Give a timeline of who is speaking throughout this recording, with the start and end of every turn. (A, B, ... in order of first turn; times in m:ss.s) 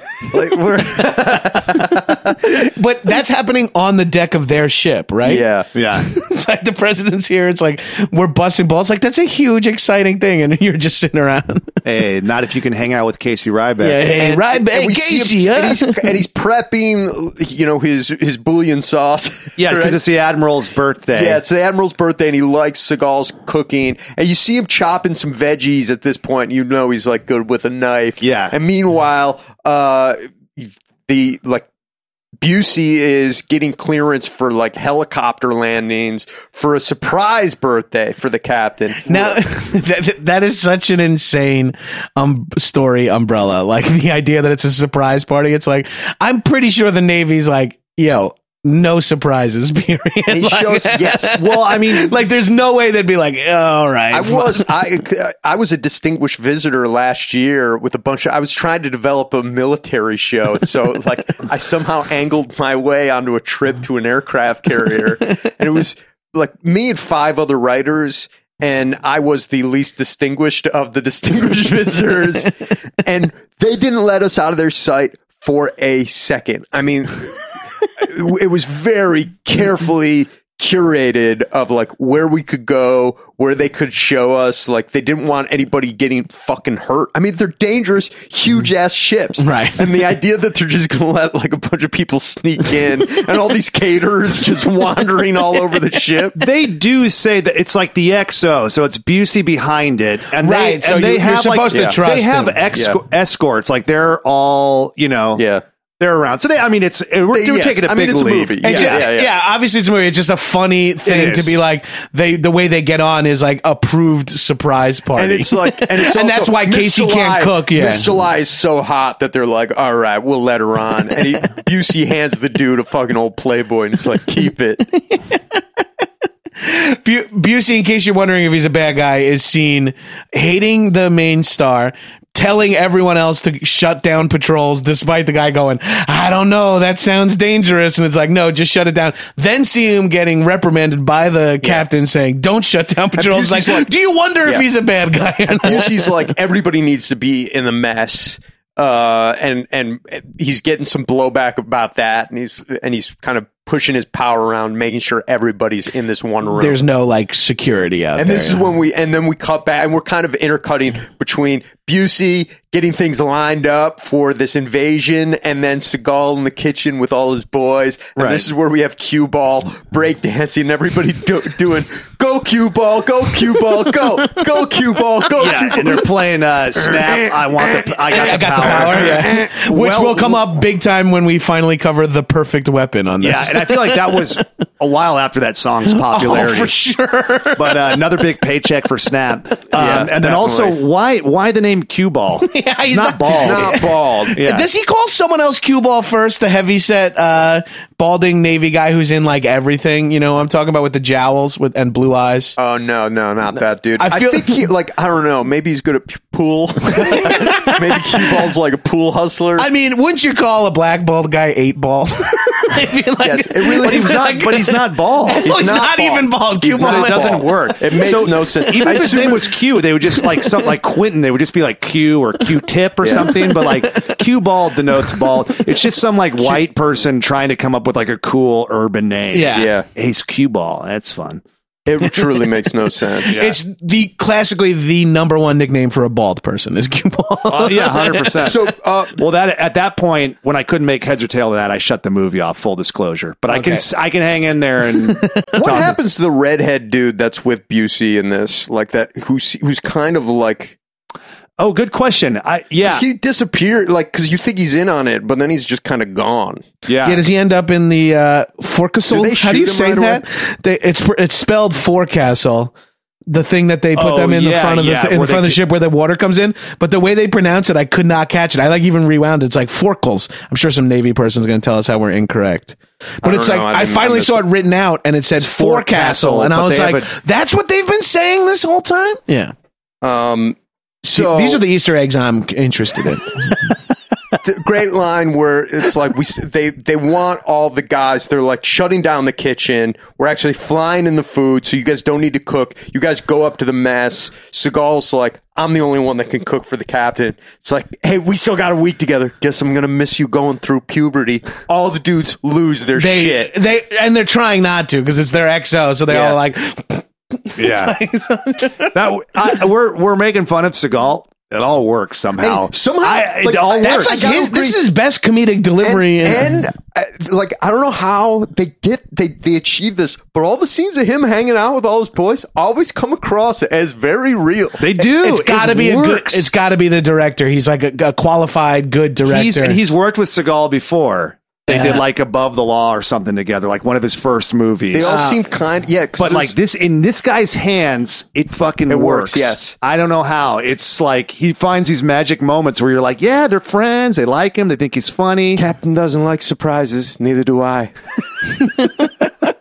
0:00.2-0:02.4 A
0:02.4-0:05.4 B
0:05.2-0:05.7 A
0:05.7-0:06.1 C
0:06.0-0:11.8 B
0:11.8-0:14.0 C
0:13.8-0:16.2 B
0:13.9-0:20.0 A
0:19.6-0:21.4 C
0:21.1-0:31.7 A
0:28.2-0:28.5 C
0:32.4-0:39.4 A
0:39.0-0:54.7 B
0:50.3-0:51.4 A
0:51.4-0:52.1 C
0:54.1-1:36.4 A
1:29.4-1:29.9 B
1:36.4-1:45.4 C
1:40.4-1:42.6 B
1:41.7-1:42.0 A
1:42.7-1:43.0 A
1:45.4-1:45.6 A
1:46.0-1:49.0 C
1:47.3-1:49.3 A
1:48.6-1:58.1 B
1:51.0-1:51.6 C
1:55.2-2:04.9 A
2:05.1-2:05.6 B
2:06.6-2:26.1 B
2:23.2-2:23.9 A
2:25.6-2:36.8 A
2:36.5-2:38.6 B
2:38.2-2:56.1 A
2:48.2-2:48.4 C
2:55.4-3:00.3 C
2:56.8-3:00.1 A
2:58.1-3:04.3 B
3:03.2-3:06.7 C
3:05.9-3:08.0 B
3:07.6-3:14.7 C
3:09.7-3:10.8 A
3:12.4-3:22.6 B
3:13.3-3:14.4 A
3:22.6-3:29.7 A
3:24.0-3:24.7 B
3:26.9-3:28.3 B
3:29.6-3:37.4 B
3:33.2-3:34.4 A
3:33.8-3:35.5 C
3:35.4-3:39.5 A
3:36.8-3:51.4 C
3:38.7-3:39.3 B
3:40.1-3:40.6 B
3:43.0-3:43.3 A
3:43.2-3:44.2 B
3:45.0-3:45.3 B
3:49.3-3:49.7 B
3:49.5-3:49.9 A
3:51.9-3:53.4 A
3:53.2-3:58.4 B
3:53.3-3:53.6 C
3:57.5-4:06.0 C
3:58.4-3:59.2 A
4:03.5-4:03.8 B
4:04.9-4:05.6 B
4:05.6-4:10.8 A
4:11.6-4:13.0 C
4:12.8-4:16.6 A
4:16.9-4:17.2 C
4:17.0-4:22.7 B
4:19.1-4:20.2 A
4:23.3-4:39.5 B
4:24.0-4:25.6 C
4:33.2-4:34.4 A
4:35.4-4:37.1 C
4:40.0-4:41.6 A
4:41.1-4:43.8 B
4:44.4-5:03.5 A
5:03.0-5:09.0 B
5:07.6-5:08.0 C
5:08.9-5:14.3 C
5:12.4-5:14.8 A
5:13.8-5:16.6 B
5:15.8-5:24.8 A
5:24.8-5:26.5 C
5:25.0-5:29.8 B
5:29.2-5:35.2 C
5:31.7-5:32.0 B
5:34.9-5:36.5 A
5:35.0-5:35.4 B
5:36.2-5:45.6 C
5:38.9-5:39.8 A
5:45.6-5:47.9 A
5:48.6-5:49.1 B